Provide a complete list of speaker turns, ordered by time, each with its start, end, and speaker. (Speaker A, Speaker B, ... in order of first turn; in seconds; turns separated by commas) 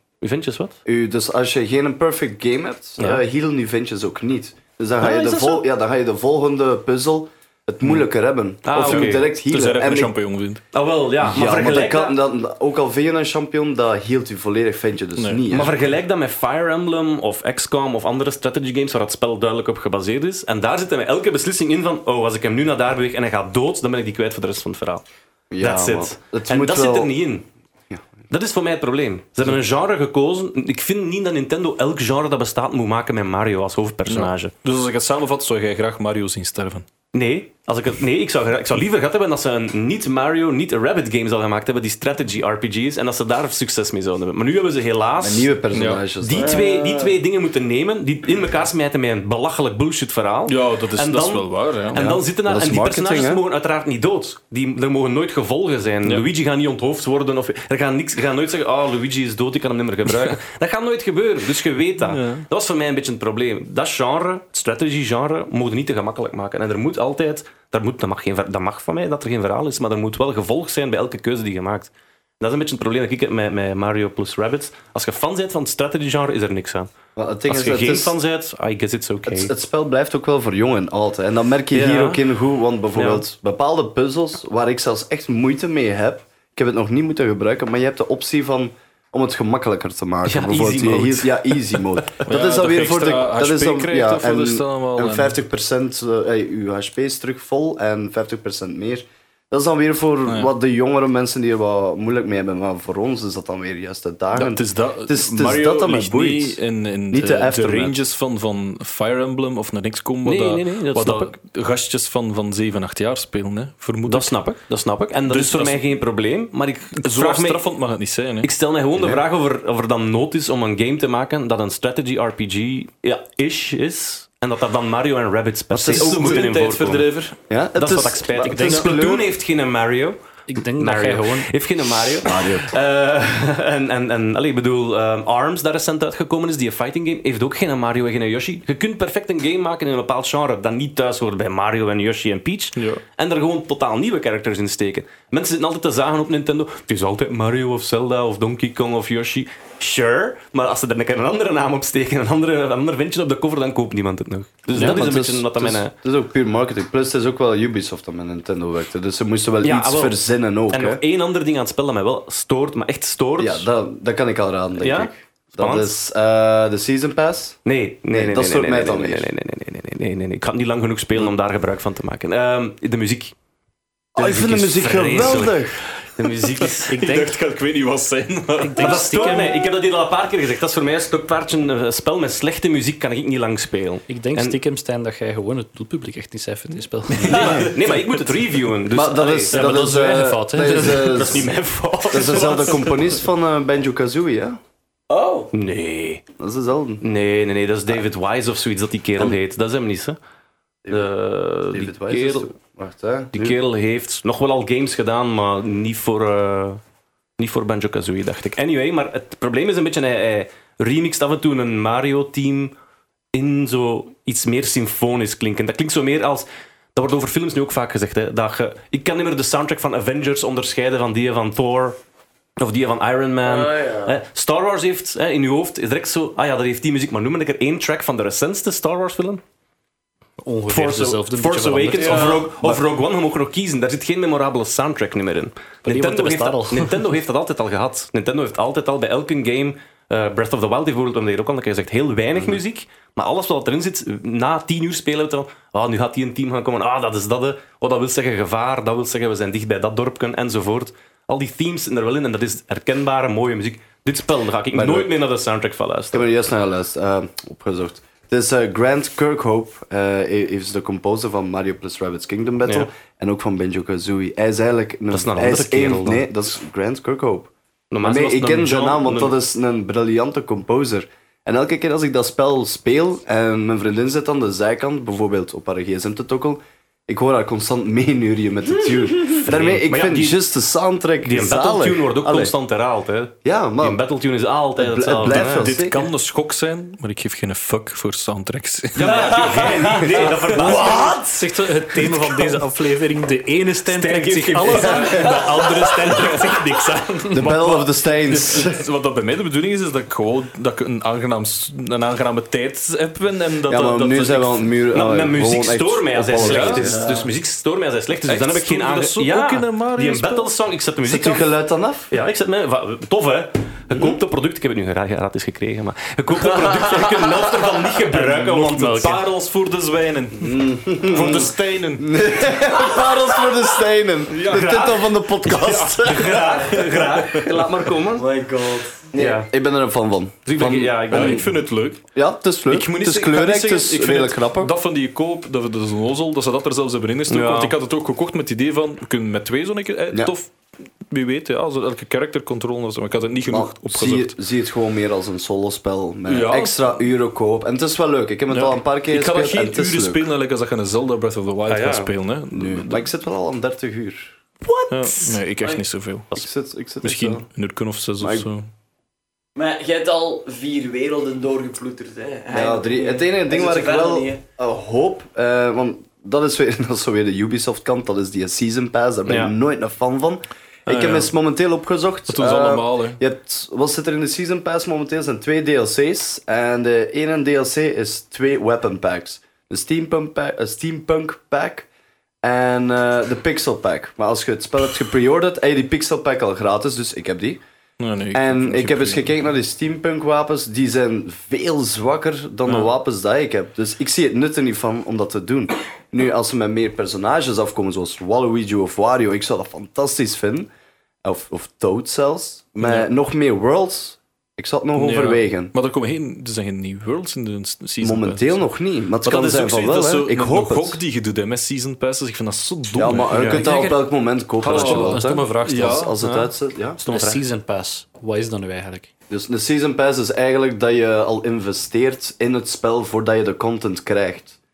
Speaker A: 0.2-0.8, Speaker B: 0.8-10.1, Speaker A: 5.0-5.6, Speaker A: 8.7-9.2, Speaker C: 8.7-10.6, Speaker A: 10.7-12.2, Speaker B: 11.2-15.7, Speaker C: 15.2-15.5, Speaker A: 15.5-25.0, Speaker B: 25.5-27.1, Speaker A: 25.6-27.5, Speaker A: 28.3-34.5, Speaker C: 34.1-36.9, Speaker A: 37.1-45.5, Speaker B: 45.2-46.5, Speaker C: 45.7-46.0, Speaker A: 46.2-76.9, Speaker D: 46.3-47.1, Speaker C: 50.5-52.0, Speaker B: 51.9-53.4, Speaker C: 60.1-60.4, Speaker C: 62.0-62.5, Speaker B: 77.2-78.2, Speaker A: 77.5-79.5, Speaker B: 79.2-106.6, Speaker A: 81.7-82.2, Speaker A: 82.9-83.2, Speaker A: 90.2-91.8, Speaker C: 92.2-95.4, Speaker C: 104.3-114.3, Speaker B: 107.1-108.0, Speaker A: 110.2-111.3, Speaker A: 114.0-117.6, Speaker C: 115.2-115.8, Speaker C: 117.0-118.5, Speaker A: 118.4-127.0, Speaker B: 125.7-126.5, Speaker C: 125.9-127.4, Speaker B: 127.5-129.3, Speaker A: 127.8-130.2, Speaker E: 128.4-128.9, Speaker E: 130.5-131.5, Speaker A: 130.8-155.9, Speaker B: 132.2-132.7, Speaker C: 142.8-143.0, Speaker B: 154.7-161.0, Speaker A: 159.6-160.2, Speaker A: 160.7-163.7, Speaker B: 163.4-167.6, Speaker A: 164.8-165.9, Speaker A: 167.6-173.3, Speaker B: 168.1-169.3, Speaker B: 174.1-175.8, Speaker A: 174.2-177.0, Speaker C: 176.8-179.4, Speaker E: 176.9-177.3, Speaker E: 178.6-179.6, Speaker A: 178.8-184.6, Speaker E: 184.1-187.7, Speaker A: 187.2-189.6, Speaker B: 187.3-187.7, Speaker B: 188.9-191.5, Speaker E: 189.5-191.4, Speaker A: 190.9-193.1, Speaker B: 192.1-194.6, Speaker D: 195.1-195.5, Speaker A: 195.5-196.2, Speaker B: 196.4-197.0, Speaker A: 197.0-200.2, Speaker A: 200.9-202.5, Speaker B: 201.7-203.6, Speaker A: 203.3-206.8, Speaker A: 207.4-212.7, Speaker A: 213.3-222.0, Speaker A: 222.6-229.4, Speaker D: 223.4-224.1, Speaker E: 230.4-232.4, Speaker A: 230.7-256.3, Speaker D: 232.0-232.4, Speaker E: 235.8-236.9, Speaker B: 254.7-255.1, Speaker B: 256.1-267.5, Speaker A: 265.1-266.2, Speaker A: 267.9-269.4, Speaker B: 268.0-282.5, Speaker A: 279.3-280.4, Speaker A: 281.2-285.7, Speaker B: 283.4-284.0, Speaker B: 284.8-286.1, Speaker C: 285.3-289.5, Speaker A: 288.9-291.2, Speaker D: 289.1-291.4, Speaker E: 291.2-297.9, Speaker A: 293.9-295.4, Speaker B: 297.3-298.8, Speaker C: 298.3-304.7, Speaker B: 303.7-307.0, Speaker A: 304.9-311.5, Speaker C: 306.4-306.9, Speaker D: 307.0-307.2, Speaker C: 308.2-310.5, Speaker B: 311.0-312.1, Speaker A: 312.1-319.2, Speaker B: 313.9-314.2, Speaker E: 318.1-319.2, Speaker C: 318.4-322.2, Speaker B: 320.4-326.8, Speaker C: 324.4-324.8, Speaker A: 324.4-325.1, Speaker A: 325.6-328.2, Speaker C: 326.7-327.4, Speaker D: 328.1-329.1, Speaker B: 329.1-331.5, Speaker A: 329.1-329.5, Speaker A: 330.4-331.4, Speaker C: 331.1-332.0, Speaker B: 332.1-334.7, Speaker C: 332.7-340.5, Speaker A: 337.3-337.8, Speaker C: 341.1-344.3, Speaker B: 343.5-350.2, Speaker C: 346.2-347.0, Speaker C: 348.5-353.0, Speaker A: 351.7-352.1, Speaker B: 352.5-354.3, Speaker D: 354.6-355.8, Speaker C: 354.9-356.4, Speaker B: 356.3-357.4, Speaker C: 357.0-358.7, Speaker B: 358.2-358.4, Speaker D: 359.6-364.4, Speaker B: 362.5-381.9, Speaker A: 369.2-369.5, Speaker C: 370.9-371.3, Speaker C: 372.3-373.2, Speaker B: 382.4-387.6, Speaker C: 388.0-389.3, Speaker B: 388.3-400.7, Speaker B: 401.2-405.7, Speaker C: 404.9-408.6, Speaker B: 408.0-411.0, Speaker C: 409.2-413.8, Speaker B: 412.9-417.0, Speaker E: 413.3-416.1, Speaker C: 414.6-416.5, Speaker E: 417.0-419.1, Speaker A: 417.0-417.4, Speaker B: 419.3-424.6